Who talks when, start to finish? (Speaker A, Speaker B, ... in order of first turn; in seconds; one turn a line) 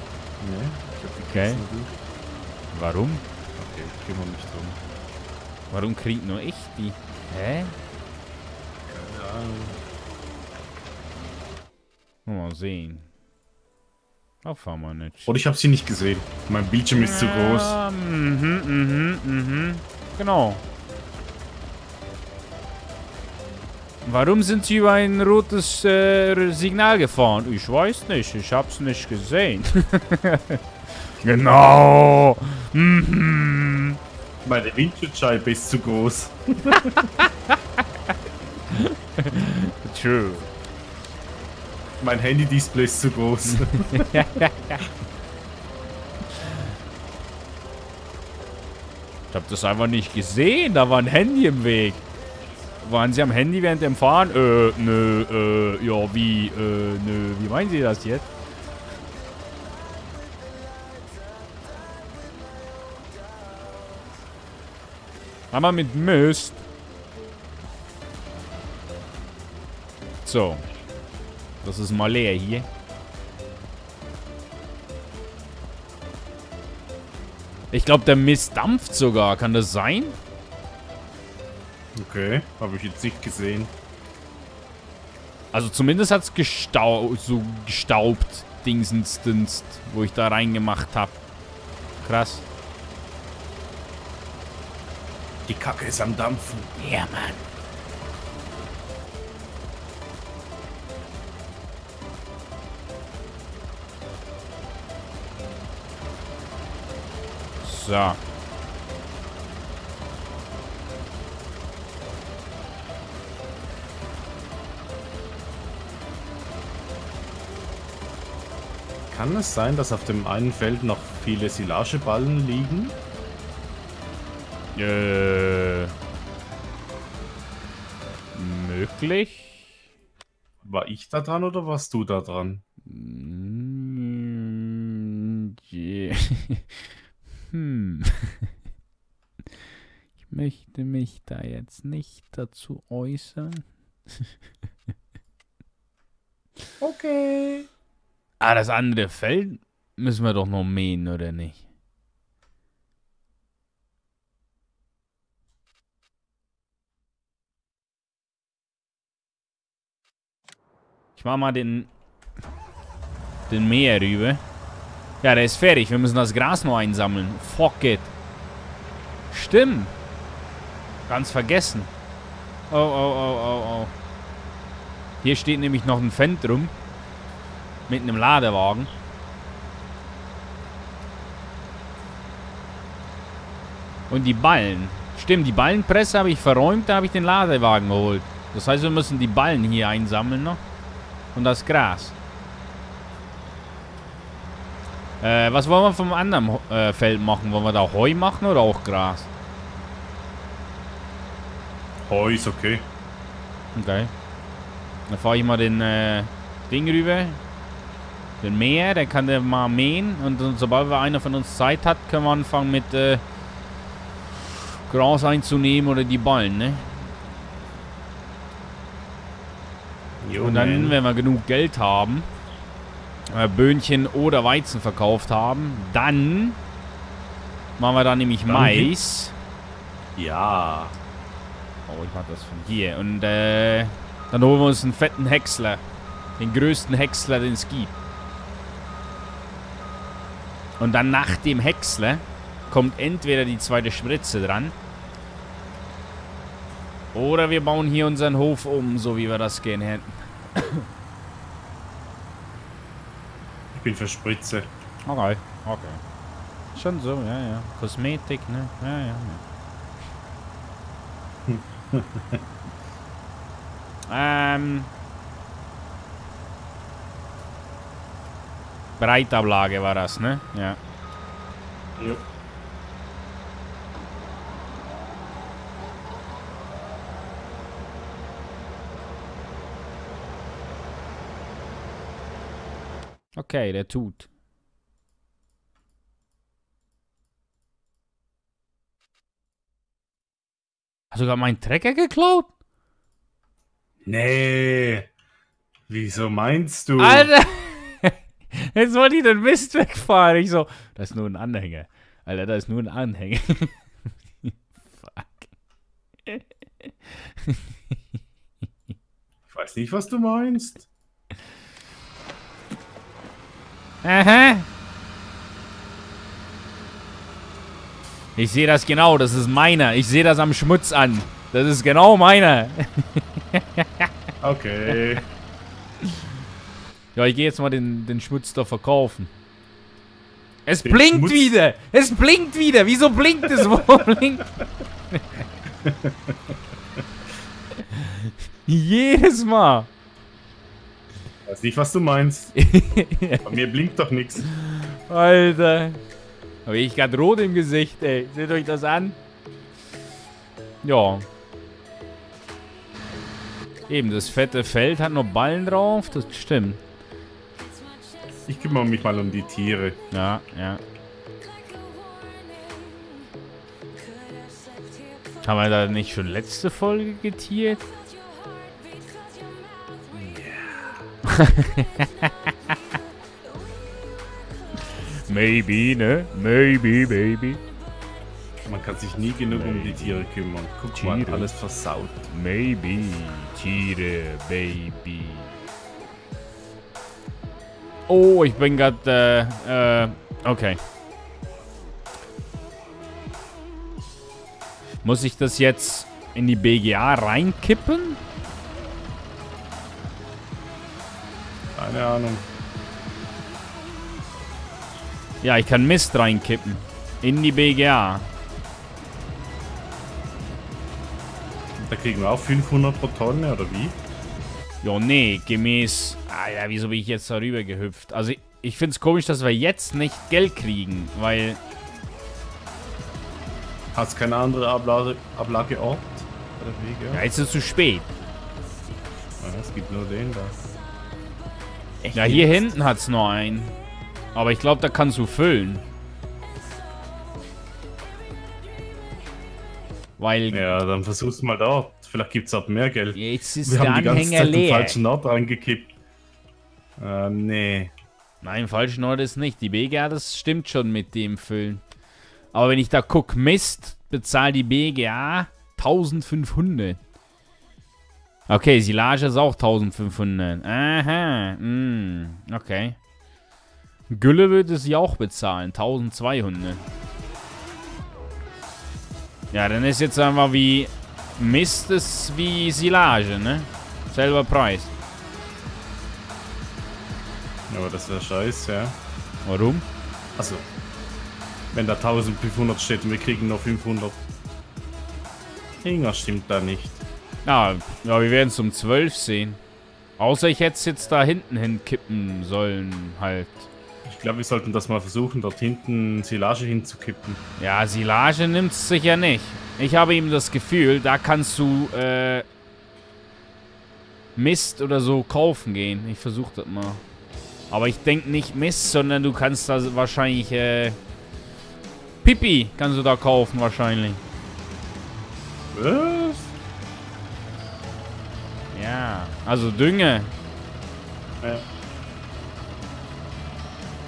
Speaker A: 0.4-2.0
Speaker B: 1.3-1.6
Speaker B: 2.7-3.2
Speaker A: 3.6-4.8
Speaker B: 5.7-7.8
Speaker A: 8.9-9.8
Speaker B: 12.3-13.1
Speaker B: 14.4-15.3
Speaker A: 15.3-17.8
Speaker B: 16.9-20.6
Speaker B: 24.0-30.6
Speaker B: 31.2-34.0
Speaker A: 31.2-31.8
Speaker A: 34.4-37.1
Speaker B: 36.7-38.0
Speaker B: 38.7-40.5
Speaker A: 42.0-44.3
Speaker B: 43.6-44.9
Speaker B: 49.3-52.0
Speaker B: 52.8-58.3
Speaker B: 65.5-66.6
Speaker B: 70.2-70.7
Speaker B: 71.6-72.7
Speaker B: 77.7-80.2
Speaker A: 82.0-83.7
Speaker B: 85.5-91.2
Speaker B: 92.0-92.5
Speaker A: 95.5-96.8
Speaker B: 96.8-97.4
Speaker B: 107.6-108.2
Speaker A: 119.1-123.0
Speaker B: 124.8-126.0
Speaker B: 128.3-129.7
Speaker A: 130.6-132.6
Speaker B: 132.9-136.8
Speaker B: 137.5-138.5
Speaker B: 140.3-143.7
Speaker A: 146.8-147.7
Speaker B: 148.4-151.6
Speaker B: 161.2-161.9
Speaker B: 163.5-164.4
Speaker B: 165.2-168.1
Speaker B: 169.3-169.9
Speaker B: 171.1-171.9
Speaker B: 172.7-173.9
Speaker B: 175.2-176.7
Speaker B: 177.9-178.9
Speaker B: 184.1-190.6
Speaker B: 191.3-192.2
Speaker B: 195.2-199.3
Speaker A: 202.1-202.9
Speaker B: 203.8-204.1
Speaker B: 205.1-207.4
Speaker B: 208.4-213.2
Speaker B: 214.9-217.0
Speaker A: 220.2-221.0
Speaker B: 220.4-222.3
Speaker B: 223.3-226.6
Speaker B: 227.8-229.3
Speaker A: 228.5-228.9
Speaker A: 230.2-231.0
Speaker B: 231.9-235.8
Speaker B: 236.4-237.9
Speaker B: 240.8-244.7
Speaker B: 247.1-250.9
Speaker A: 253.7-254.7
Speaker B: 255.1-256.0
Speaker B: 256.7-259.4
Speaker A: 261.5-262.4
Speaker B: 264.1-264.9
Speaker B: 269.0-270.8
Speaker A: 272.0-272.2
Speaker B: 283.4-284.3
Speaker B: 291.1-292.5
Speaker A: 294.1-295.1
Speaker A: 295.9-297.3
Speaker B: 297.0-303.8
Speaker B: 304.4-305.5
Speaker B: 306.3-308.0
Speaker A: 309.5-310.9
Speaker B: 314.0-314.7
Speaker B: 318.4-324.1
Speaker A: 324.4-325.2
Speaker B: 326.0-326.3
Speaker B: 327.1-329.3
Speaker B: 330.7-334.5
Speaker A: 330.9-331.5
Speaker A: 335.8-336.6
Speaker B: 337.8-339.9
Speaker A: 341.5-342.5
Speaker B: 342.6-343.6
Speaker A: 343.4-344.5
Speaker B: 344.4-346.0
Speaker B: 346.7-349.2
Speaker B: 350.8-351.2
Speaker B: 353.9-356.8
Speaker A: 358.5-360.0
Speaker B: 360.1-360.8
Speaker B: 365.4-367.9
Speaker A: 370.1-371.0
Speaker B: 371.2-372.8
Speaker B: 374.9-377.6
Speaker A: 378.7-382.3
Speaker B: 379.5-380.3
Speaker B: 380.9-381.5
Speaker B: 382.3-385.5
Speaker B: 388.1-390.8
Speaker B: 395.0-398.2
Speaker A: 401.8-402.4
Speaker B: 405.4-408.3
Speaker A: 411.8-414.0
Speaker B: 414.8-421.6
Speaker A: 423.9-427.2
Speaker B: 427.1-428.1
Speaker A: 429.4-430.6
Speaker A: 432.0-432.7
Speaker B: 432.1-433.8
Speaker B: 434.4-435.8
Speaker B: 440.2-440.8
Speaker A: 440.5-445.9
Speaker B: 443.1-445.0
Speaker A: 447.0-447.9
Speaker B: 448.4-451.8
Speaker B: 452.5-457.0
Speaker B: 458.5-463.0
Speaker B: 464.1-466.8
Speaker B: 469.5-474.9
Speaker A: 477.7-478.9
Speaker B: 479.4-479.9
Speaker A: 480.4-480.6
Speaker A: 481.7-484.2
Speaker A: 485.8-487.0
Speaker B: 487.4-489.6
Speaker B: 490.2-493.7
Speaker A: 494.1-497.4
Speaker B: 497.6-502.5
Speaker B: 504.4-507.0
Speaker B: 507.7-511.0
Speaker B: 512.2-514.2
Speaker A: 515.7-516.5
Speaker B: 518.7-520.3